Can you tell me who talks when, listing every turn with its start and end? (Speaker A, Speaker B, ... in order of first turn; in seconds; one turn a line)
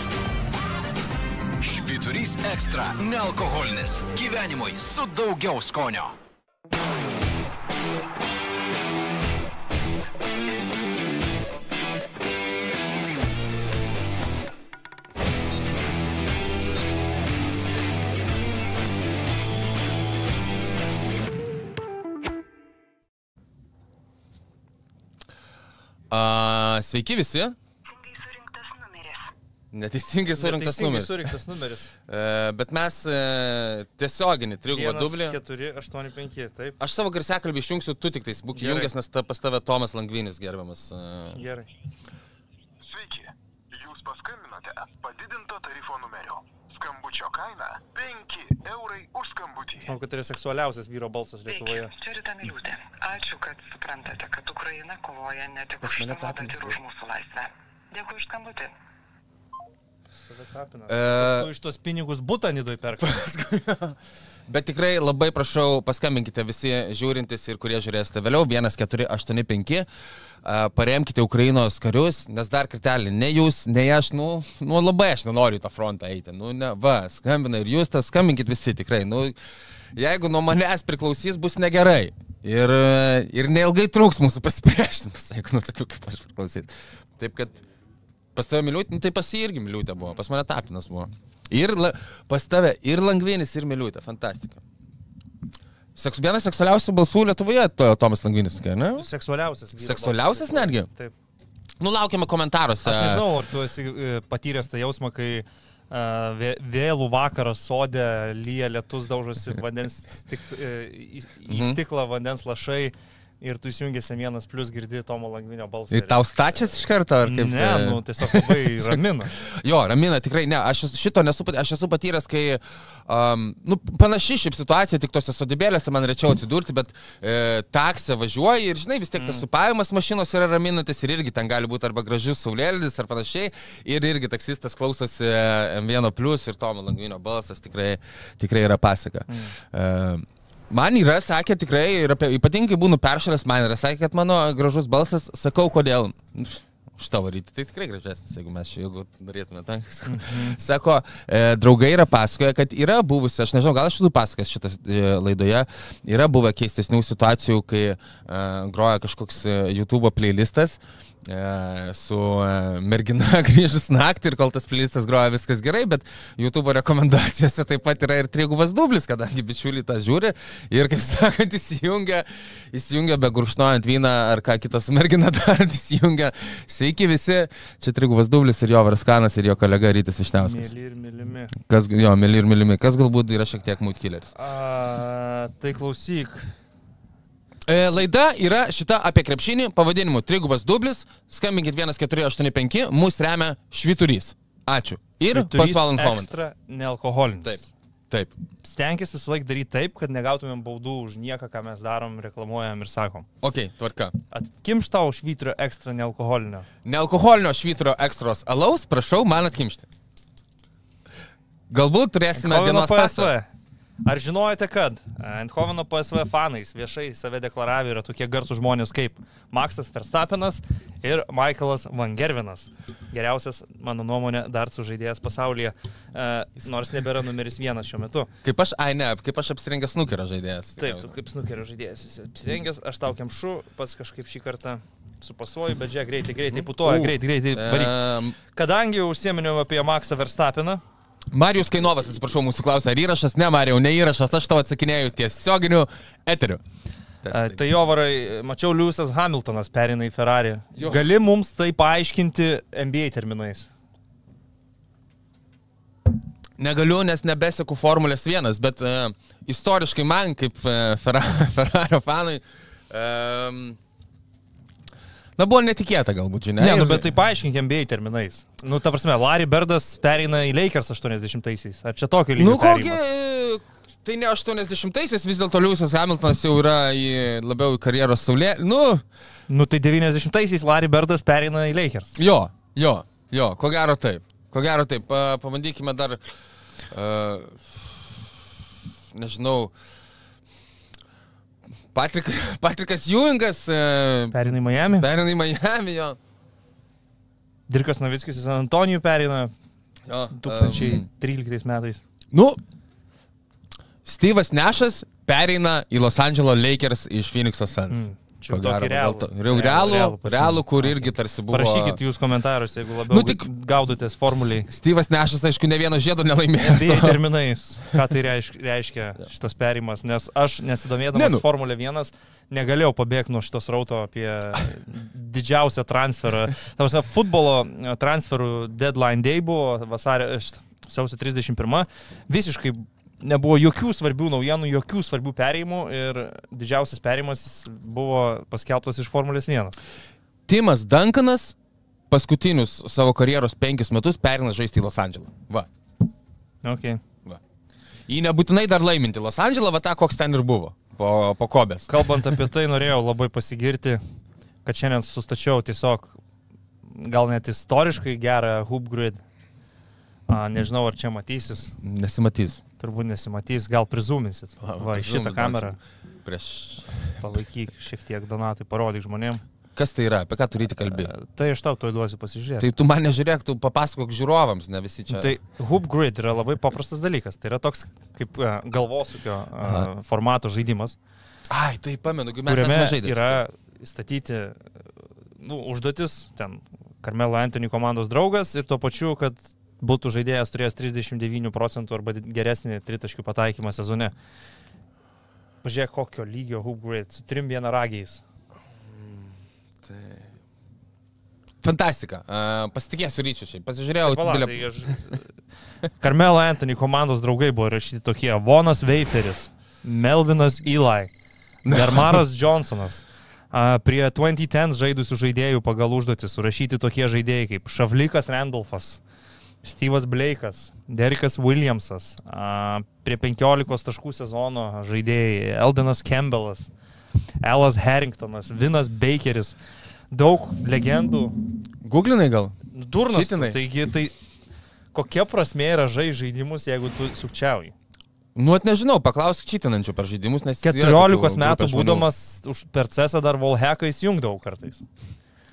Speaker A: 1.6-6.1
Speaker B: 26.1-27.6
Speaker C: 27.9-29.2
Speaker B: 29.7-31.3
Speaker D: 30.4-31.9
Speaker B: 32.0-35.4
Speaker D: 34.7-36.8
Speaker B: 36.8-41.4
Speaker D: 38.5-38.9
Speaker D: 41.3-41.7
Speaker E: 42.9-49.9
Speaker D: 49.8-51.9
Speaker C: 51.5-58.7
Speaker B: 55.8-56.8
Speaker D: 60.3-63.2
Speaker B: 60.9-61.5
Speaker B: 63.0-69.9
Speaker B: 70.4-79.3
Speaker B: 79.9-87.6
Speaker B: 88.3-94.6
Speaker B: 95.9-99.1
Speaker D: 99.0-101.1
Speaker B: 99.8-100.9
Speaker B: 101.8-103.3
Speaker D: 102.8-116.2
Speaker B: 111.5-111.8
Speaker B: 115.9-180.7
Speaker D: 117.2-119.3
Speaker D: 129.2-129.4
Speaker D: 139.3-139.5
Speaker D: 150.1-150.6
Speaker D: 180.4-181.5
Speaker B: 181.6-184.3
Speaker D: 184.3-186.5
Speaker B: 187.7-196.3
Speaker D: 195.3-197.7
Speaker B: 197.4-198.3
Speaker D: 198.6-203.2
Speaker B: 203.4-204.1
Speaker D: 204.3-206.7
Speaker B: 206.8-209.9
Speaker B: 211.7-213.3
Speaker D: 212.3-213.5
Speaker D: 214.0-228.3
Speaker B: 228.4-231.1
Speaker D: 230.8-237.9
Speaker B: 236.5-238.4
Speaker D: 238.5-240.8
Speaker B: 241.3-246.6
Speaker B: 247.2-247.7
Speaker D: 247.3-253.7
Speaker B: 256.6-263.8
Speaker B: 265.4-267.1
Speaker D: 266.6-273.0
Speaker B: 272.4-279.0
Speaker D: 279.5-282.1
Speaker B: 282.1-286.2
Speaker B: 286.9-288.3
Speaker B: 289.1-289.7
Speaker B: 291.9-294.4
Speaker D: 294.3-295.1
Speaker B: 294.9-296.2
Speaker D: 297.7-299.5
Speaker B: 300.1-301.1
Speaker D: 300.3-302.0
Speaker B: 302.3-302.6
Speaker B: 304.0-312.0
Speaker D: 307.9-314.7
Speaker B: 313.1-313.5
Speaker B: 314.3-317.2
Speaker D: 316.6-339.8
Speaker B: 321.1-321.4
Speaker B: 340.5-341.5
Speaker B: 342.1-345.7
Speaker D: 346.6-347.0
Speaker B: 348.1-352.3
Speaker D: 351.9-354.0
Speaker D: 354.6-356.2
Speaker D: 356.9-359.2
Speaker D: 360.3-361.8
Speaker B: 361.8-362.6
Speaker D: 362.8-365.8
Speaker B: 364.6-367.2
Speaker D: 367.2-369.4
Speaker B: 369.8-371.1
Speaker D: 370.9-372.7
Speaker B: 372.6-375.3
Speaker D: 375.1-380.9
Speaker B: 379.6-379.9
Speaker B: 381.5-383.4
Speaker D: 382.4-384.6
Speaker D: 385.4-394.1
Speaker D: 395.6-398.2
Speaker B: 398.8-400.3
Speaker B: 401.6-404.7
Speaker D: 404.0-405.3
Speaker D: 406.0-411.1
Speaker B: 411.6-412.2
Speaker D: 411.7-419.0
Speaker D: 419.6-426.7
Speaker D: 427.4-429.6
Speaker D: 430.1-431.3
Speaker B: 431.8-433.6
Speaker D: 432.7-434.1
Speaker D: 434.9-437.7
Speaker B: 438.3-442.1
Speaker D: 440.6-444.9